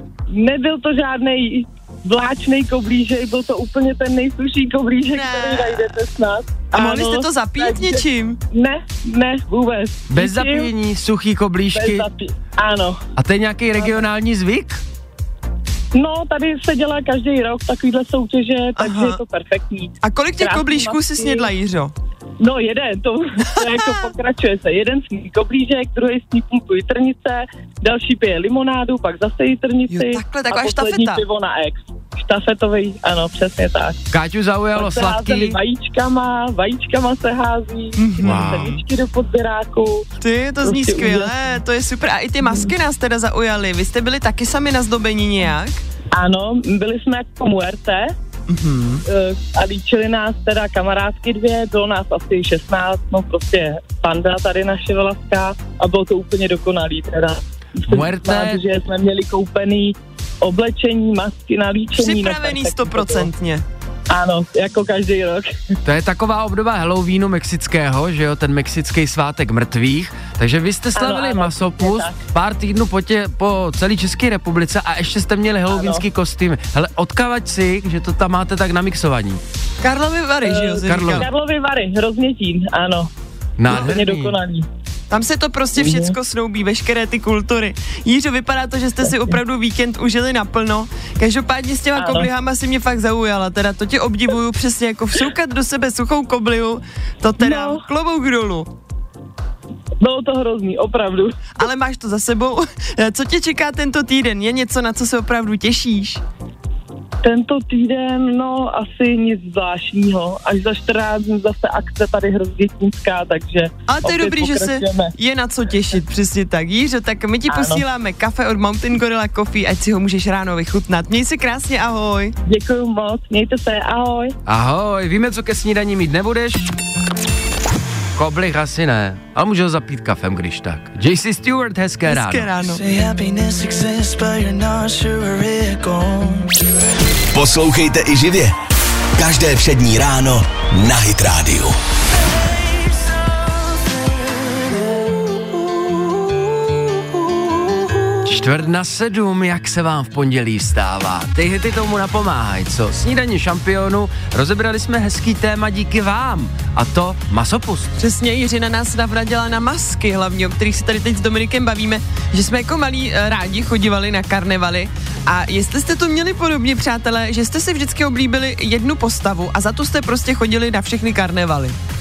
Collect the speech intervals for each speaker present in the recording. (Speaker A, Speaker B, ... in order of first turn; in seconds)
Speaker A: 0.3-10.7, 11.7-13.0, 13.8-14.1, 15.9-21.5, 22.4-34.0, 34.8-40.0, 40.6-41.3, 42.4-42.7, 46.1-48.1, 49.1-63.3, 64.1-65.5, 71.0-72.2, 75.7-76.0, 80.4-83.1, 83.7-84.7, 85.8-86.2, 92.0-92.3, 97.4-97.8, 100.0-101.3, 107.2-115.1, 117.5-117.8, 122.5-124.3
Speaker B: 5.1-5.9, 6.7-8.4, 18.8-19.2, 20.0-21.9, 23.6-24.1, 29.9-31.2, 38.0-38.8, 40.2-45.8, 48.5-49.0, 62.0-63.6, 79.8-81.3, 85.1-98.7, 101.6-106.2, 113.9-122.3, 132.1-132.8, 158.0-171.8
Speaker C: 10.1-12.1, 13.2-14.8, 34.1-35.6, 38.2-38.7, 57.9-58.6, 65.8-79.4, 80.8-81.3, 83.6-84.4, 124.5-126.7, 128.2-132.5, 148.2-157.9
Speaker D: 132.6-136.6
Speaker E: 137.3-138.6, 139.2-141.8